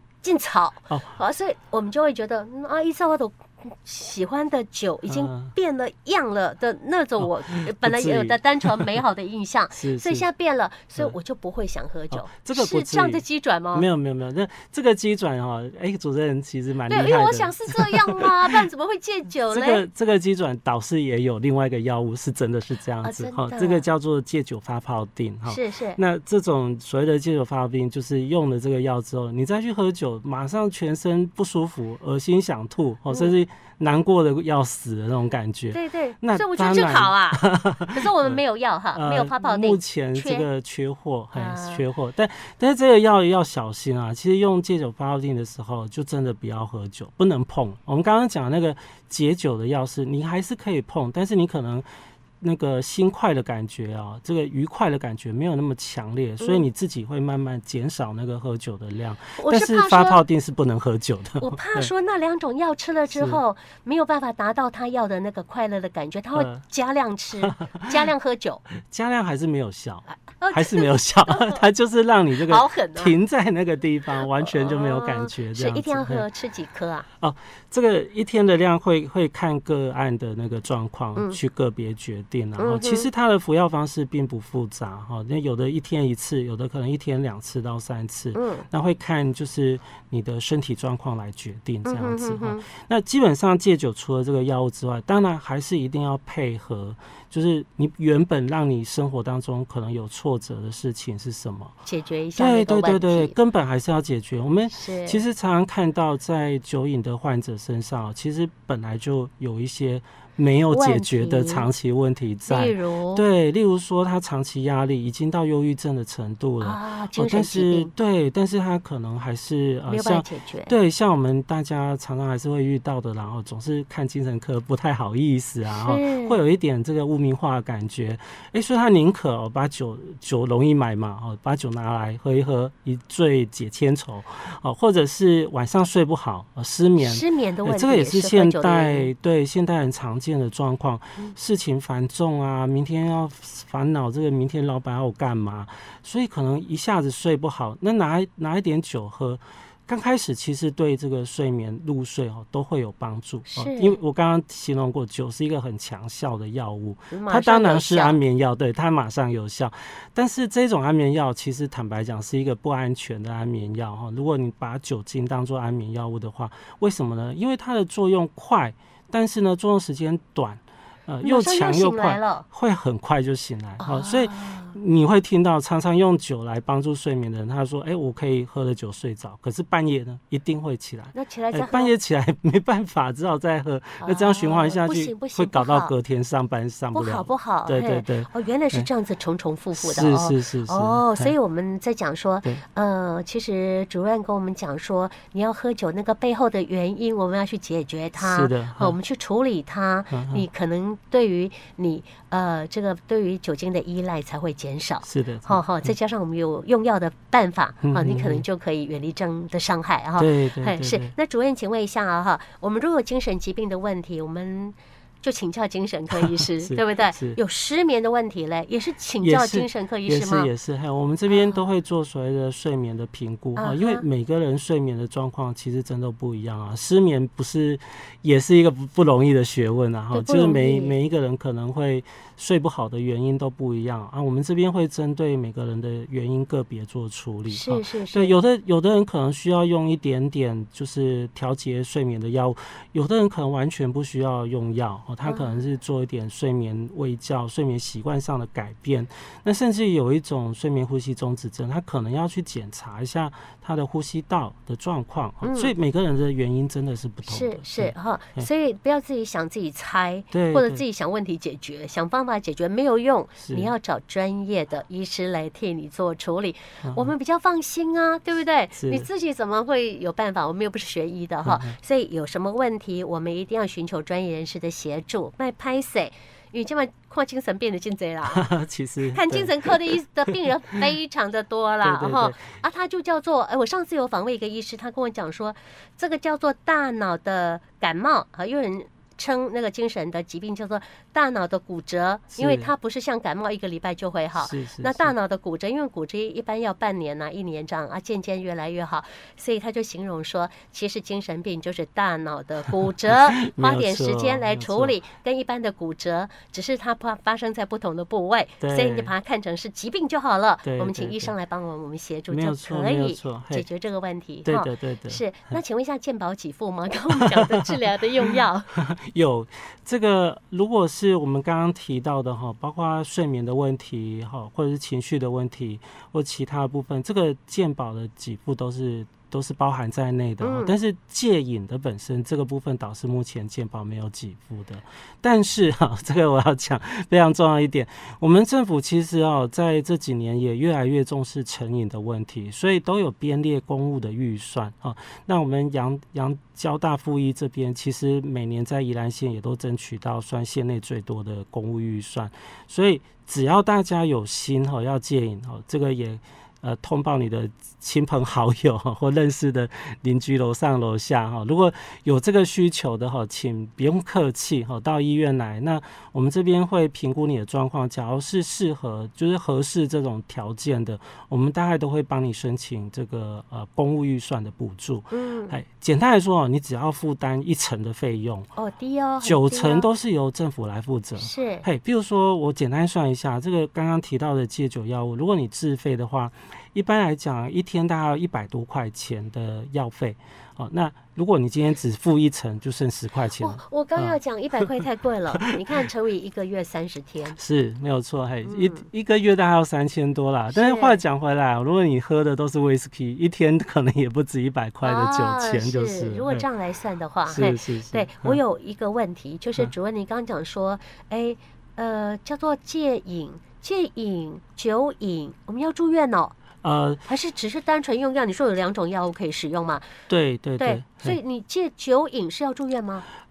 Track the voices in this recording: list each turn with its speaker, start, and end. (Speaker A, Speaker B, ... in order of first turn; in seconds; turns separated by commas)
Speaker A: 0.2-13.9, Speaker B: 0.9-1.1, Speaker B: 5.1-5.5, Speaker B: 7.2-8.9, Speaker B: 9.8-10.3, Speaker B: 12.1-13.2, Speaker B: 13.7-18.6, Speaker A: 16.9-19.8, Speaker B: 19.5-38.4, Speaker A: 23.0-23.9, Speaker A: 25.4-26.0, Speaker A: 35.7-40.5, Speaker B: 38.9-51.9, Speaker A: 41.3-41.8, Speaker B: 52.4-61.9, Speaker A: 59.4-60.2, Speaker A: 61.4-68.6, Speaker B: 63.1-63.4, Speaker B: 66.3-66.6, Speaker B: 67.4-68.1, Speaker B: 68.7-76.2, Speaker A: 70.4-71.6, Speaker A: 72.4-73.2, Speaker A: 74.2-77.1, Speaker B: 77.2-101.8, Speaker A: 82.6-83.1, Speaker A: 88.3-88.7, Speaker A: 91.8-92.7, Speaker A: 101.8-103.3, Speaker B: 102.3-188.9, Speaker A: 104.7-105.2, Speaker A: 110.7-111.7, Speaker A: 112.5-113.2, Speaker A: 116.6-117.9, Speaker A: 119.9-120.7, Speaker A: 125.7-126.4, Speaker A: 137.0-139.1, Speaker A: 153.5-154.0, Speaker A: 157.1-158.2, Speaker A: 171.2-172.4, Speaker A: 173.8-174.8, Speaker A: 181.1-181.9, Speaker A: 184.0-185.9, Speaker A: 186.9-220.5, Speaker B: 189.8-191.3, Speaker B: 198.2-199.0, Speaker B: 200.1-200.4, Speaker B: 205.0-205.9, Speaker B: 207.8-208.4, Speaker B: 210.2-211.1, Speaker B: 216.1-217.4, Speaker B: 219.2-258.5, Speaker A: 221.3-221.6, Speaker A: 223.6-224.0, Speaker A: 230.1-230.9, Speaker A: 237.5-238.3, Speaker A: 245.2-245.6, Speaker A: 255.4-255.7, Speaker A: 257.2-278.4, Speaker B: 260.3-260.8, Speaker B: 263.4-263.7, Speaker B: 266.8-267.1, Speaker B: 268.7-269.1, Speaker B: 271.4-271.8, Speaker B: 278.2-280.9, Speaker A: 279.1-318.7, Speaker B: 281.8-282.4, Speaker B: 292.3-292.7, Speaker B: 294.4-295.1, Speaker B: 302.7-305.0, Speaker B: 308.6-309.1, Speaker B: 310.6-311.3, Speaker B: 312.3-313.7, Speaker B: 314.4-315.6, Speaker B: 317.1-378.5, Speaker A: 330.4-330.7, Speaker A: 375.1-375.6, Speaker A: 378.6-379.9, Speaker B: 379.2-394.8, Speaker A: 381.2-381.6, Speaker A: 393.4-397.4, Speaker B: 397.3-406.4, Speaker A: 398.4-398.9, Speaker A: 400.5-401.0, Speaker A: 404.8-416.3, Speaker B: 407.2-408.4, Speaker B: 416.6-417.0, Speaker A: 417.1-419.9, Speaker B: 420.1-421.2, Speaker A: 420.6-423.0